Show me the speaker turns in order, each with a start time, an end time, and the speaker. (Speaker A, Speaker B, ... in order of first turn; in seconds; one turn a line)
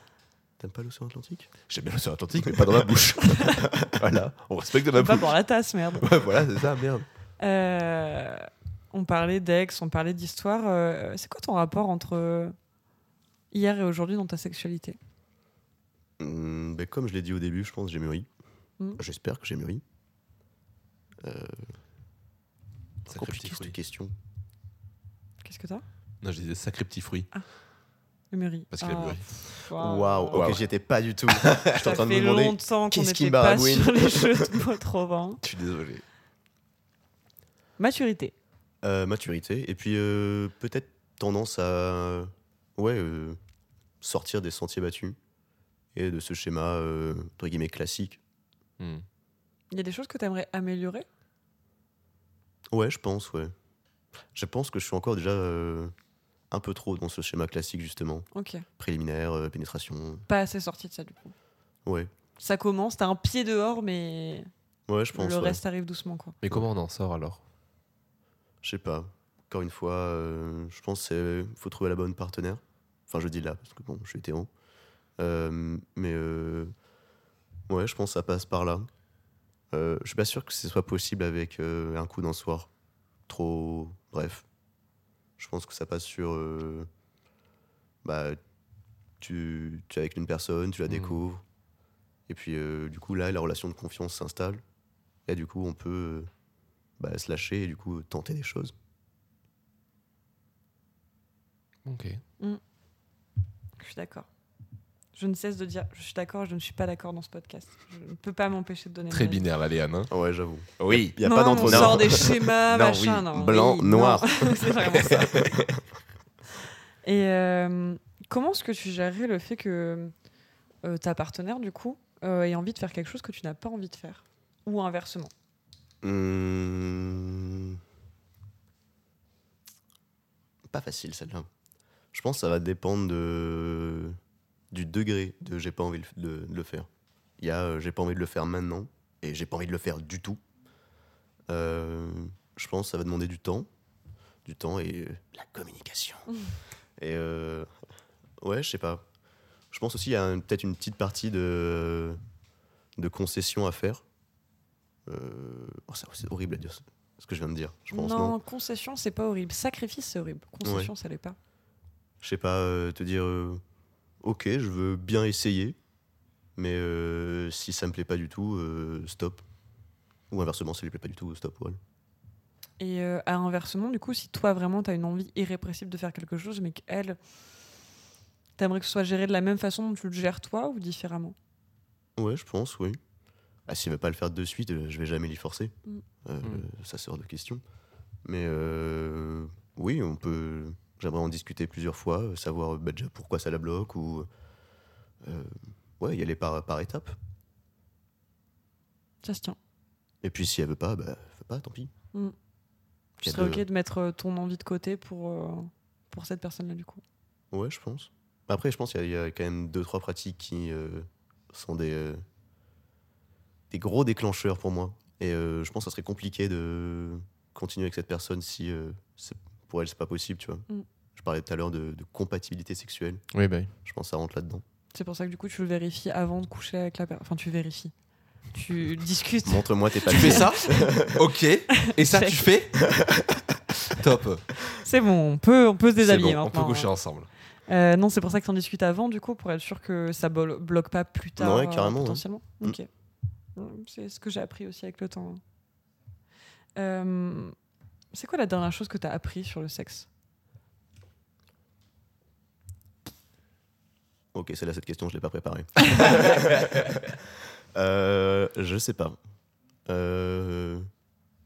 Speaker A: 0.6-1.5
Speaker B: 1.7-5.3
Speaker A: 2.5-2.8
Speaker C: 3.2-3.7
Speaker A: 3.6-3.9
Speaker C: 5.0-6.1
Speaker B: 6.0-7.1
Speaker C: 7.4-12.6
Speaker C: 13.5-15.0
Speaker A: 16.2-18.3
Speaker A: 19.0-19.8
Speaker A: 21.2-21.7
Speaker B: 23.1-23.8
Speaker A: 23.1-24.1
Speaker C: 25.4-25.8
Speaker B: 26.2-27.3
Speaker C: 28.3-30.4
Speaker B: 28.7-29.2
Speaker A: 29.8-34.5
Speaker B: 30.3-30.6
Speaker B: 31.3-31.8
Speaker C: 31.8-35.4
Speaker B: 35.4-36.0
Speaker C: 37.8-38.3
Speaker A: 38.8-43.4
Speaker A: 44.0-45.2
Speaker A: 45.9-48.2
Speaker B: 48.8-49.0
Speaker C: 49.7-51.0
Speaker A: 52.7-53.5
Speaker A: 54.3-55.9
Speaker A: 56.5-58.3
Speaker C: 58.3-58.6
Speaker A: 58.8-60.2
Speaker C: 60.3-61.3
Speaker A: 61.9-62.1
Speaker C: 62.4-64.5
Speaker A: 64.9-65.6
Speaker C: 65.1-66.4
Speaker B: 66.4-67.4
Speaker A: 68.6-74.5
Speaker A: 75.2-76.7
Speaker A: 77.7-78.9
Speaker A: 79.7-82.7
Speaker A: 83.3-84.5
Speaker A: 85.4-86.9
Speaker A: 88.0-88.4
Speaker A: 89.2-91.4
Speaker B: 90.9-91.2
Speaker A: 92.3-94.6
Speaker A: 95.3-96.3
Speaker A: 97.0-98.7
Speaker B: 101.9-102.2
Speaker C: 103.8-104.3
Speaker C: 105.2-109.5
Speaker B: 109.1-110.1
Speaker A: 110.1-115.8
Speaker B: 110.8-112.2
Speaker C: 111.2-115.5
Speaker B: 115.0-115.5
Speaker C: 117.0-120.1
Speaker C: 120.8-125.3
Speaker A: 126.0-127.8
Speaker A: 130.7-131.5
Speaker A: 132.1-134.2
Speaker A: 134.7-136.9
Speaker A: 137.4-140.4
Speaker A: 141.5-143.7
Speaker A: 144.4-146.3
Speaker A: 147.0-147.7
Speaker A: 148.4-149.1
Speaker A: 149.7-152.2
Speaker A: 153.0-154.0
Speaker A: 155.1-158.4
Speaker C: 157.9-161.4
Speaker A: 160.6-160.9
Speaker A: 162.2-163.6
Speaker A: 164.2-165.8
Speaker A: 166.6-169.4
Speaker A: 170.3-171.8
Speaker C: 172.8-177.2
Speaker C: 178.6-181.3
Speaker A: 182.2-183.0
Speaker A: 183.7-185.7
Speaker A: 186.2-187.6
Speaker A: 188.2-194.3
Speaker A: 195.2-197.2
Speaker C: 199.2-199.6
Speaker A: 200.2-201.9
Speaker C: 203.2-207.0
Speaker A: 203.2-203.7
Speaker A: 207.5-212.2
Speaker A: 213.7-223.2
Speaker B: 223.3-223.7
Speaker A: 223.8-224.6
Speaker C: 224.9-227.9
Speaker C: 228.5-230.9
Speaker A: 229.4-231.2
Speaker B: 230.1-233.0
Speaker C: 231.7-232.5
Speaker A: 232.9-233.3
Speaker B: 233.9-234.5
Speaker C: 234.7-236.9
Speaker B: 236.0-237.3
Speaker C: 237.7-242.9
Speaker A: 241.4-242.8
Speaker C: 243.6-245.4
Speaker C: 246.8-247.6
Speaker C: 248.1-250.1
Speaker A: 254.3-259.2
Speaker A: 259.9-260.9